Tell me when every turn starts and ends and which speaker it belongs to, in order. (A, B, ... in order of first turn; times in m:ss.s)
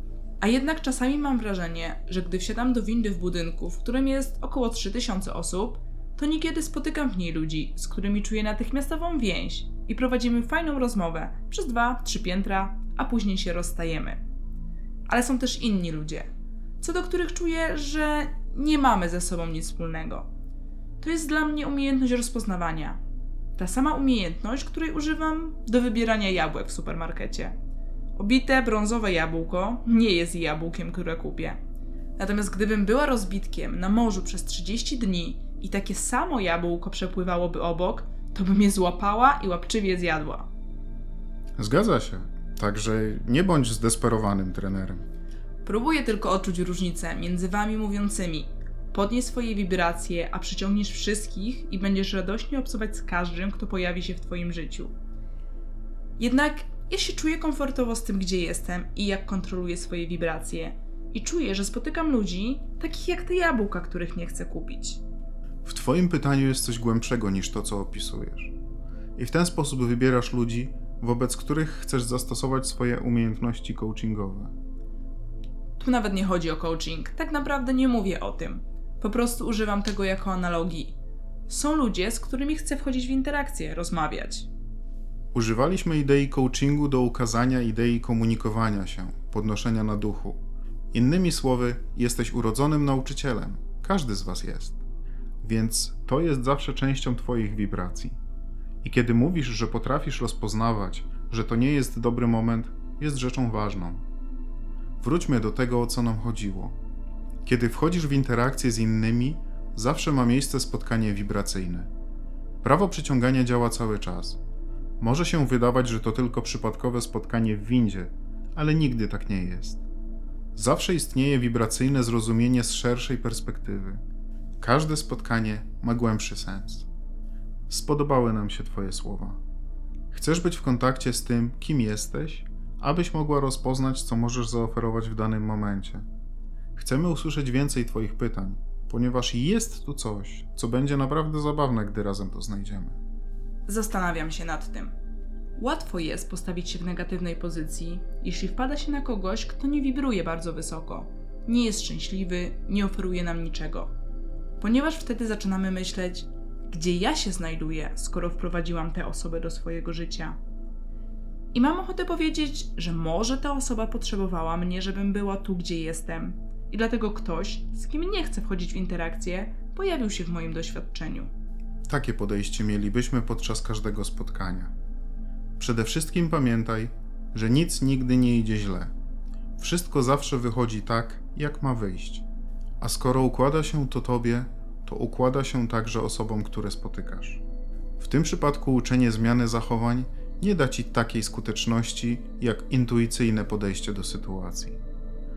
0:00.4-0:14.2 A
0:15.1-0:16.3 A
0:16.8-0:20.3 A
0:21.0-0:23.0 A
0:23.6-0:27.5 A
0:28.2-0:31.6 A
0:32.2-0:40.5 A
0:41.6-0:45.0 B
0:45.6-0:54.9 A
0:56.2-1:05.0 A
1:05.6-1:08.5 B
1:09.2-1:14.5 B
1:15.8-1:21.0 A
1:21.5-1:24.5 A
1:25.3-1:30.4 B
1:30.9-1:34.8 B
1:35.4-1:38.2 B
1:38.8-1:44.0 B
1:45.0-1:46.7 B
1:47.4-1:51.9 B
1:52.6-1:54.4 B
1:55.0-1:59.8 B
2:00.5-2:04.0 B
2:04.6-2:06.9 B
2:07.7-2:09.4 B
2:10.1-2:16.0 B
2:16.8-2:23.0 B
2:23.7-2:24.9 A
2:25.6-2:33.9 A
2:34.6-2:40.4 A
2:41.5-2:51.3 A
2:51.9-2:54.7 B
2:55.6-2:58.9 B
2:59.6-3:02.2 B
3:02.8-3:07.4 B
3:08.0-3:14.8 B